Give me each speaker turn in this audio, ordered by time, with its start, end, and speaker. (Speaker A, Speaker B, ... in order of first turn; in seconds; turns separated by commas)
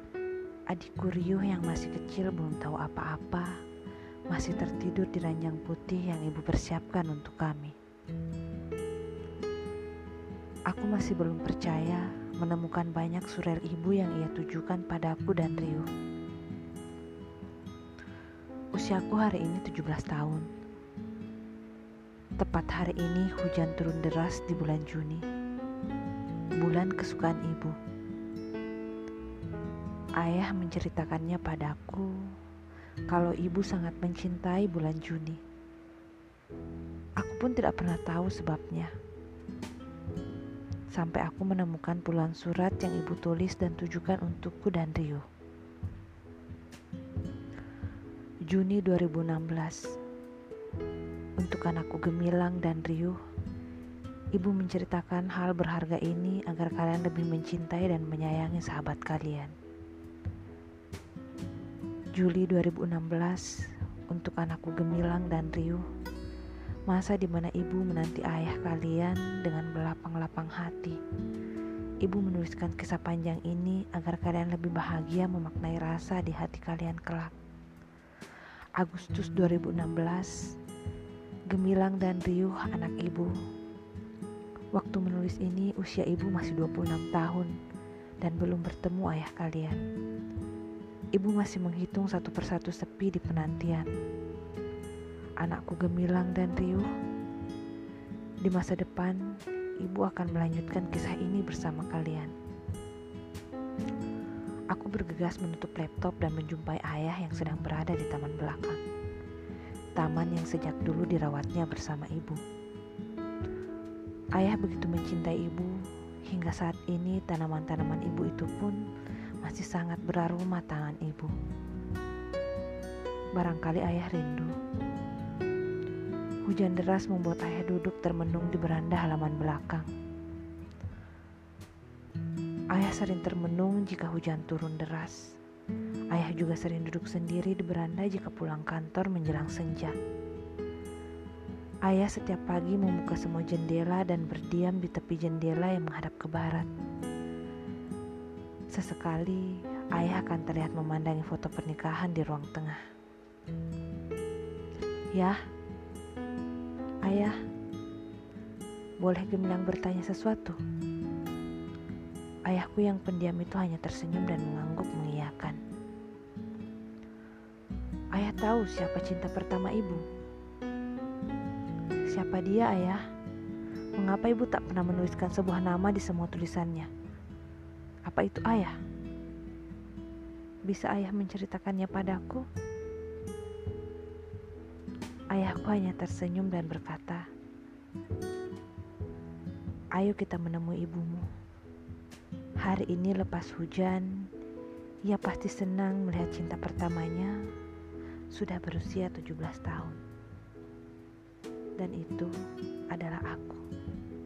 Speaker A: 0.7-3.5, Speaker A: 4.3-7.8, Speaker A: 10.7-15.9, Speaker A: 18.7-20.5, Speaker A: 22.4-25.2, Speaker A: 26.6-27.8, Speaker A: 30.2-32.2, Speaker A: 33.1-35.4, Speaker A: 37.2-38.9, Speaker A: 40.9-45.2, Speaker A: 48.5-49.9, Speaker A: 51.4-53.2, Speaker A: 54.4-59.5, Speaker A: 62.2-63.5, Speaker A: 64.1-65.8, Speaker A: 66.9-71.0, Speaker A: 72.0-77.3, Speaker A: 78.8-80.4, Speaker A: 81.5-83.3, Speaker A: 84.7-87.5, Speaker A: 88.2-89.8, Speaker A: 91.2-93.9, Speaker A: 95.4-96.9, Speaker A: 98.5-99.2, Speaker A: 99.8-102.3, Speaker A: 104.7-108.8, Speaker A: 110.0-112.4, Speaker A: 114.4-118.8, Speaker A: 119.4-121.3, Speaker A: 123.4-124.5, Speaker A: 126.5-129.9, Speaker A: 132.7-135.3, Speaker A: 136.1-140.0, Speaker A: 141.9-146.7, Speaker A: 148.7-152.8, Speaker A: 155.1-155.4, Speaker A: 157.1-157.4, Speaker A: 159.0-160.6, Speaker A: 162.5-165.6, Speaker A: 168.2-170.0, Speaker A: 172.1-173.0, Speaker A: 174.0-176.9, Speaker A: 178.1-178.8, Speaker A: 180.7-182.4, Speaker A: 185.3-187.2, Speaker A: 190.0-191.3, Speaker A: 192.6-194.2, Speaker A: 195.1-197.4, Speaker A: 198.3-200.0, Speaker A: 201.8-202.3, Speaker A: 202.9-203.7